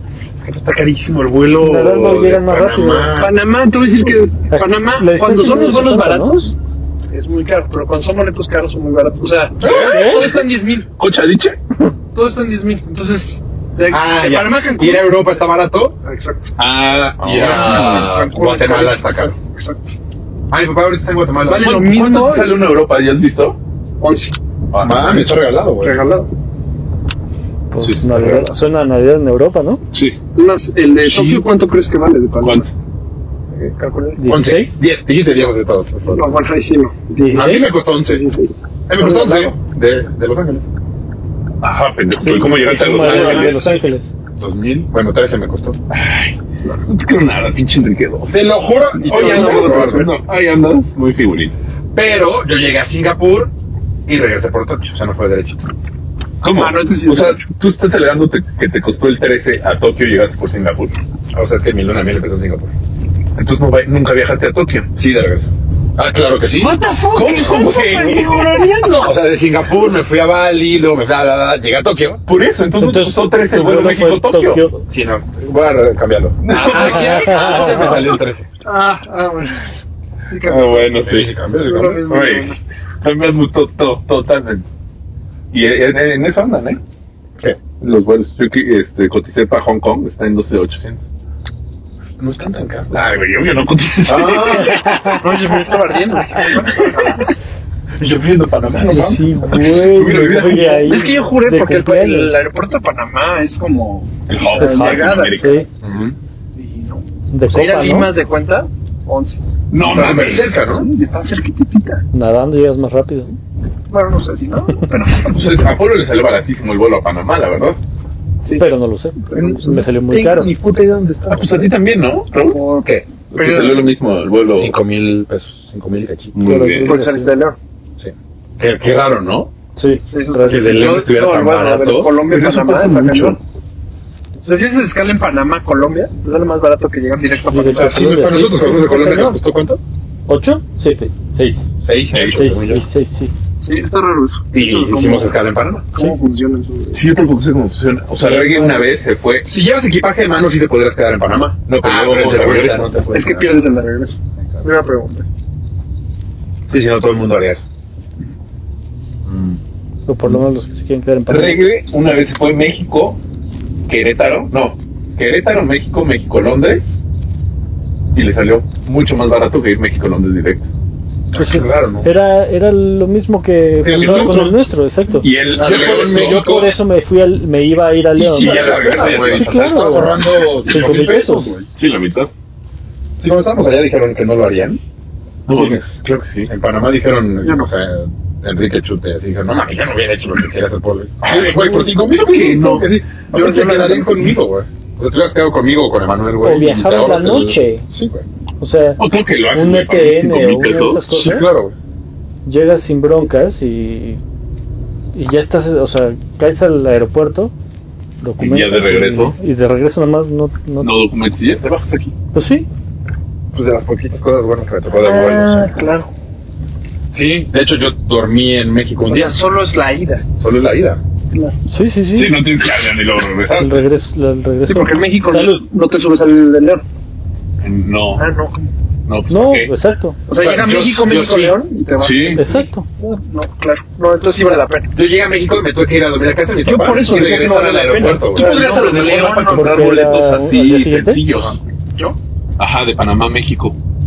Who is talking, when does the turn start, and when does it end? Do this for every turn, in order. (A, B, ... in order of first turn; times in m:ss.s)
0:00.4-0:03.4 A
0:01.6-0:03.1 B
0:03.2-0:06.6 C
0:04.5-0:06.5 B
0:07.1-0:10.9 C
0:09.6-0:11.6 D
0:09.7-0:10.3 B
0:12.1-0:15.1 C
0:13.9-0:16.0 A
0:16.0-0:16.5 C
0:16.6-0:18.1 D
0:17.2-0:19.4 A
0:17.4-0:19.9 C
0:20.5-0:21.8 A
0:21.4-0:22.6 C
0:21.6-0:23.6 D
0:24.0-0:24.3 C
0:24.7-0:25.3 D
0:24.8-0:26.0 A
0:25.8-0:26.3 C
0:27.7-0:29.8 B
0:27.8-0:28.5 D
0:29.9-0:30.2 D
0:30.3-0:32.7 C
0:31.1-0:31.4 A
0:31.1-0:31.4 D
0:32.4-0:32.7 D
0:33.5-0:34.2 C
0:34.2-0:34.8 B
0:34.3-0:36.4 A
0:36.1-0:39.5 C
0:37.2-0:37.7 B
0:37.3-0:38.2 A
0:38.9-0:40.7 A
0:41.6-0:43.7 D
0:42.2-0:44.1 B
0:42.8-0:43.7 A
0:44.4-0:45.8 A
0:45.9-0:48.4 D
0:48.3-0:50.1 A
0:49.0-0:50.1 C
0:49.0-0:51.5 D
0:51.9-0:53.5 A
0:54.1-0:55.7 A
0:56.4-1:01.0 D
0:56.5-0:57.4 C
1:01.3-1:02.7 A
1:03.4-1:04.9 D
1:04.9-1:12.2 A
1:06.6-1:08.9 D
1:06.8-1:08.9 C
1:12.3-1:14.6 D
1:12.7-1:14.8 B
1:14.9-1:18.5 A
1:16.4-1:18.0 D
1:16.5-1:18.0 C
1:17.0-1:17.7 B
1:18.6-1:21.0 C
1:20.4-1:21.3 D
1:21.0-1:22.0 A
1:21.6-1:22.6 C
1:22.1-1:24.6 D
1:25.5-1:26.8 D
1:27.8-1:31.0 D
1:32.2-1:32.9 A
1:32.9-1:35.3 D
1:34.1-1:34.9 A
1:34.6-1:35.2 B
1:35.2-1:37.3 C
1:38.0-1:39.3 A
1:38.8-1:42.4 B
1:39.5-1:41.0 D
1:40.9-1:45.6 C
1:44.3-1:45.6 D
1:44.6-1:45.7 B
1:45.8-1:46.2 A
1:46.6-1:52.0 C
1:47.3-1:48.1 B
1:49.7-1:50.6 D
1:49.8-1:50.9 A
1:52.1-1:53.3 B
1:53.9-1:55.6 C
1:55.2-1:57.8 D
1:58.4-1:58.7 C
1:58.6-2:00.5 B
1:59.3-1:59.9 C
1:59.3-2:01.7 A
2:01.3-2:02.6 D
2:02.4-2:03.9 C
2:02.8-2:03.1 A
2:03.3-2:04.8 D
2:04.5-2:06.6 A
2:06.4-2:06.9 D
2:06.4-2:07.4 B
2:06.8-2:07.6 C
2:08.0-2:09.5 A
2:09.8-2:10.9 B
2:10.1-2:13.4 C
2:10.4-2:12.2 A
2:12.2-2:13.4 D
2:14.4-2:18.2 C
2:17.5-2:19.4 B
2:17.7-2:19.8 A
2:20.3-2:21.7 B
2:21.8-2:22.8 A
2:22.1-2:22.4 D
2:22.3-2:23.3 B
2:23.6-2:25.4 C
2:24.5-2:25.9 A
2:25.9-2:27.0 C
2:26.9-2:29.5 D
2:28.2-2:28.8 B
2:29.4-2:33.6 A
2:31.7-2:33.0 D
2:33.1-2:35.2 C
2:34.4-2:34.6 A
2:36.7-2:37.6 A
2:39.2-2:39.6 A
2:40.1-2:41.6 B
2:41.3-2:43.2 D
2:43.9-2:46.9 D
2:48.1-2:50.7 D
2:51.3-2:52.1 A
2:51.4-3:01.5 B
2:53.8-2:54.5 A
2:53.8-2:54.6 D
2:55.1-2:56.4 D
2:55.5-2:56.7 A
2:58.2-3:01.6 A
2:58.3-3:00.1 D
3:00.6-3:02.3 D
3:03.2-3:04.8 A
3:05.5-3:06.5 D
3:05.5-3:06.0 B
3:06.5-3:18.2 A
3:07.4-3:07.7 C
3:11.2-3:12.9 D
3:12.6-3:14.4 C
3:16.4-3:17.8 B
3:18.6-3:19.0 B
3:19.0-3:21.1 D
3:19.5-3:21.6 B
3:21.1-3:21.7 A
3:22.4-3:24.2 B
3:25.1-3:27.5 B
3:28.2-3:31.0 B
3:28.4-3:29.4 D
3:30.8-3:32.1 D
3:32.3-3:32.7 B
3:33.5-3:35.8 A
3:35.0-3:36.1 C
3:37.1-3:39.4 A
3:39.1-3:40.2 C
3:40.4-3:41.0 A
3:41.7-3:42.4 B
3:42.1-3:43.8 D
3:43.6-3:45.6 B
3:44.7-3:46.8 C
3:47.6-3:48.2 D
3:48.2-3:48.7 C
3:49.1-3:49.7 D
3:49.3-3:50.2 B
3:50.3-3:54.9 C
3:50.4-3:51.6 A
3:52.0-3:52.5 D
3:52.4-3:52.9 B
3:54.9-3:58.6 A
3:56.6-4:00.1 C
3:58.3-4:01.6 D
3:59.5-4:01.2 B
4:02.6-4:03.8 D